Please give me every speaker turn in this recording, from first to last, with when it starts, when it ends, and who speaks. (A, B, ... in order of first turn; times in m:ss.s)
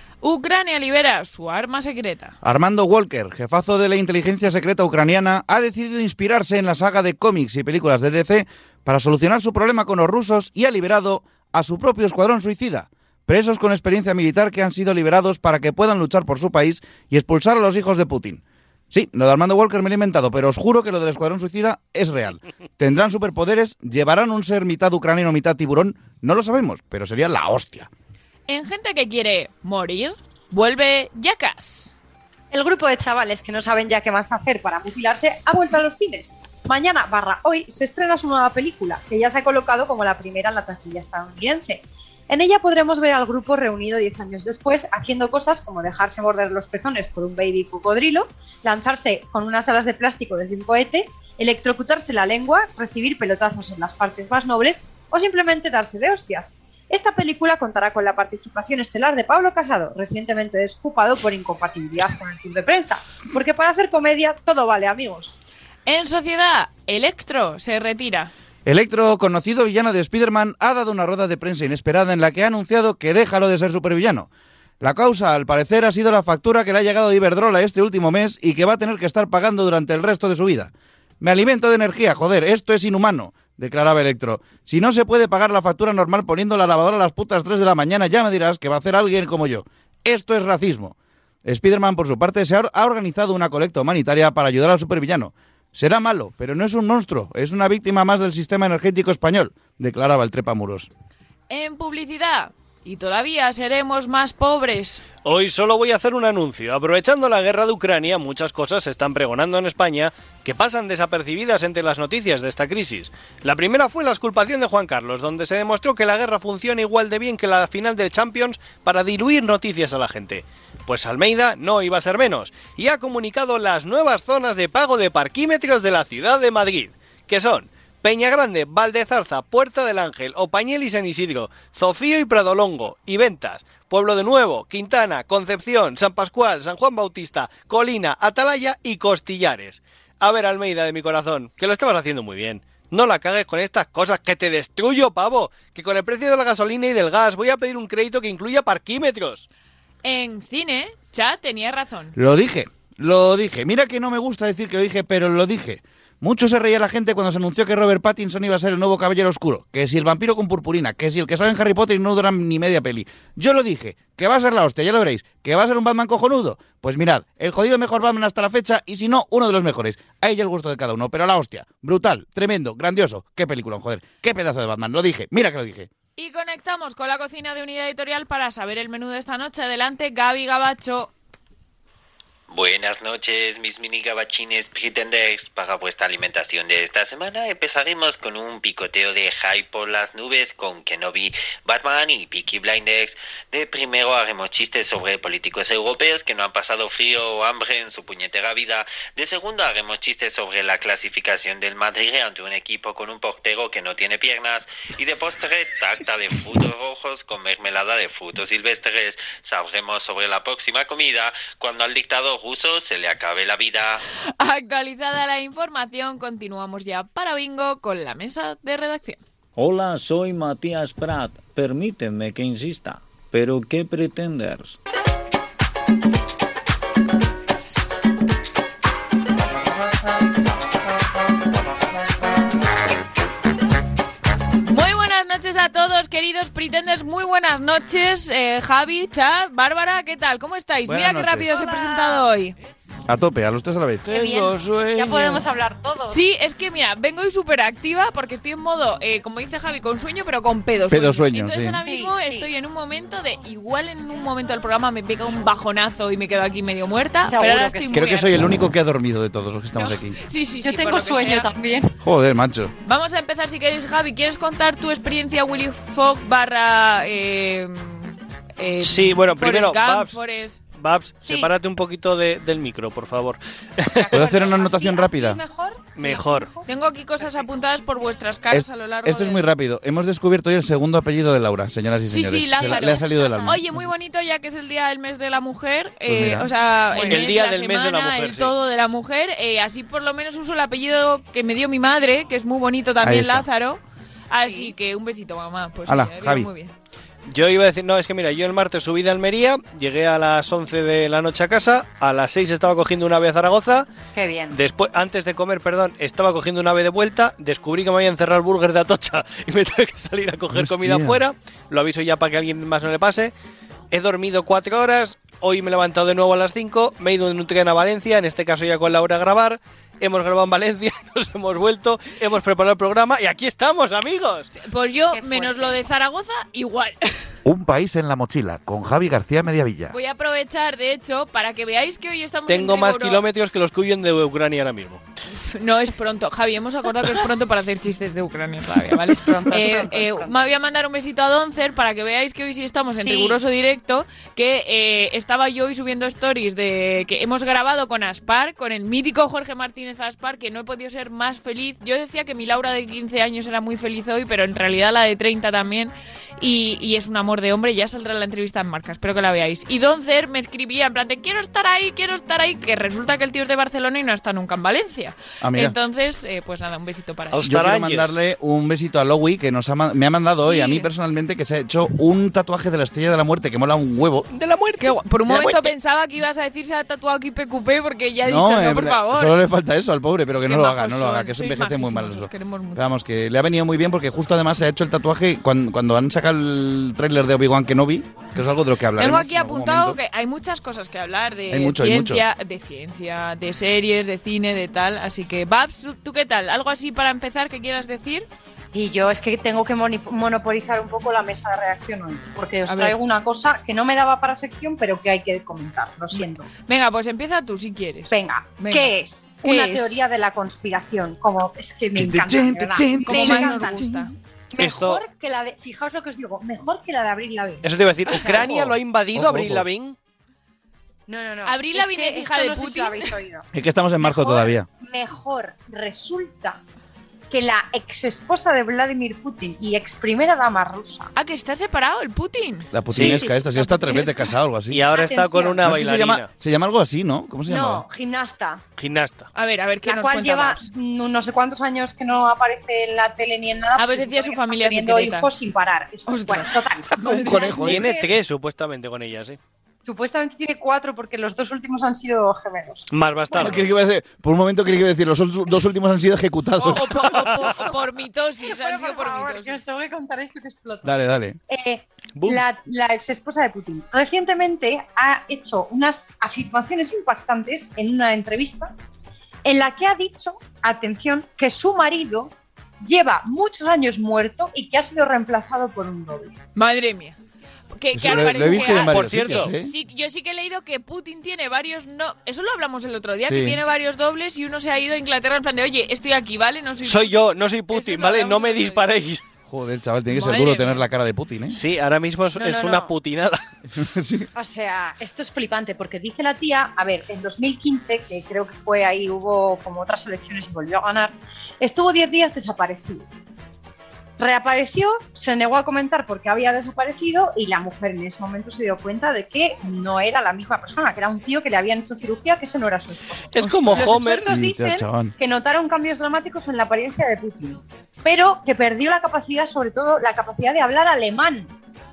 0:00.2-0:02.4 A
0:02.4-0:27.9 B
0:28.5-0:31.9 A
0:32.5-1:05.4 C
1:05.9-1:08.3 A
1:08.7-1:14.3 B
1:14.8-1:40.9 B
1:41.5-1:45.0 A
1:45.2-2:29.5 D
2:30.0-2:32.2 A
2:32.2-2:55.9 B
2:56.2-3:01.1 A
3:02.5-3:34.0 E
3:34.4-3:39.2 A
3:39.6-3:44.8 F
3:54.7-4:02.6 A
4:00.9-4:01.5 B
4:01.5-4:02.3 C
4:03.1-4:04.2 B
4:04.0-4:05.5 D
4:04.1-4:06.2 C
4:06.0-4:18.4 A
4:10.9-4:11.8 B
4:11.8-4:12.5 C
4:17.3-4:18.2 C
4:17.9-4:20.2 B
4:19.8-4:21.5 A
4:20.6-4:21.9 C
4:22.0-4:22.7 B
4:22.8-4:30.6 A
4:28.8-4:30.2 D
4:30.8-4:34.4 D
4:31.2-4:31.5 C
4:33.9-4:36.7 C
4:34.1-4:35.4 B
4:36.0-4:36.5 D
4:36.7-4:39.5 A
4:38.5-4:43.6 B
4:42.1-4:56.7 A
4:46.1-4:46.5 B
4:46.9-4:47.2 C
4:47.0-4:48.5 D
4:53.0-4:53.5 B
4:54.4-4:54.7 C
4:55.9-4:56.5 B
4:57.3-5:03.9 D
5:04.2-5:04.6 C
5:04.5-5:13.3 D
5:10.5-5:11.2 B
5:13.9-5:24.5 D
5:24.5-5:27.3 A
5:25.1-5:25.8 C
5:27.4-5:30.0 B
5:29.9-5:33.2 A
5:32.5-5:35.0 D
5:35.4-6:07.4 A
5:39.0-5:40.4 C
5:43.0-5:43.4 C
6:05.4-6:05.8 B
6:07.3-6:08.2 D
6:07.4-6:14.3 B
6:10.4-6:10.9 A
6:14.3-6:15.8 D
6:14.8-6:19.4 A
6:18.2-6:30.0 B
6:20.4-6:22.9 A
6:29.0-6:38.3 A
6:31.5-6:32.2 B
6:38.7-6:46.5 C
6:42.7-6:43.0 A
6:46.2-6:48.9 A
6:48.1-6:58.5 C
6:49.4-6:50.0 A
6:52.0-6:54.0 B
6:53.0-6:54.1 A
6:54.6-6:55.0 D
6:57.6-7:00.0 D
6:58.3-6:59.7 B
7:01.1-7:03.5 C
7:01.4-7:03.2 A
7:03.5-7:04.7 B
7:04.0-7:06.6 C
7:07.3-7:11.1 C
7:11.2-7:14.3 A
7:12.7-7:14.9 B
7:12.9-7:13.2 D
7:14.7-7:16.3 D
7:14.9-7:15.8 C
7:15.6-7:17.8 B
7:17.5-7:18.6 C
7:18.8-7:19.3 D
7:19.3-7:20.7 A
7:19.8-7:28.1 C
7:23.8-7:25.3 A
7:26.1-7:27.7 A
7:27.0-7:27.9 B
7:27.6-7:29.4 D
7:29.8-7:33.6 C
7:32.9-7:33.7 D
7:33.4-7:37.5 B
7:36.6-7:39.6 A
7:38.4-7:41.0 C
7:40.8-7:41.4 B
7:41.5-7:48.7 C
7:42.2-7:42.4 D
7:49.4-7:56.4 C
7:56.6-7:57.2 A
7:57.8-8:08.9 A
7:57.9-7:59.7 B
7:58.1-7:59.5 D
8:03.3-8:03.6 B
8:06.8-8:09.2 D
8:09.5-8:11.6 B
8:10.1-8:10.9 A
8:11.5-8:13.4 D
8:12.4-8:12.9 C
8:13.7-8:14.3 B
8:14.4-8:23.1 C
8:24.2-8:41.5 C
8:33.3-8:34.3 D
8:33.4-8:33.9 A
8:34.3-8:35.1 B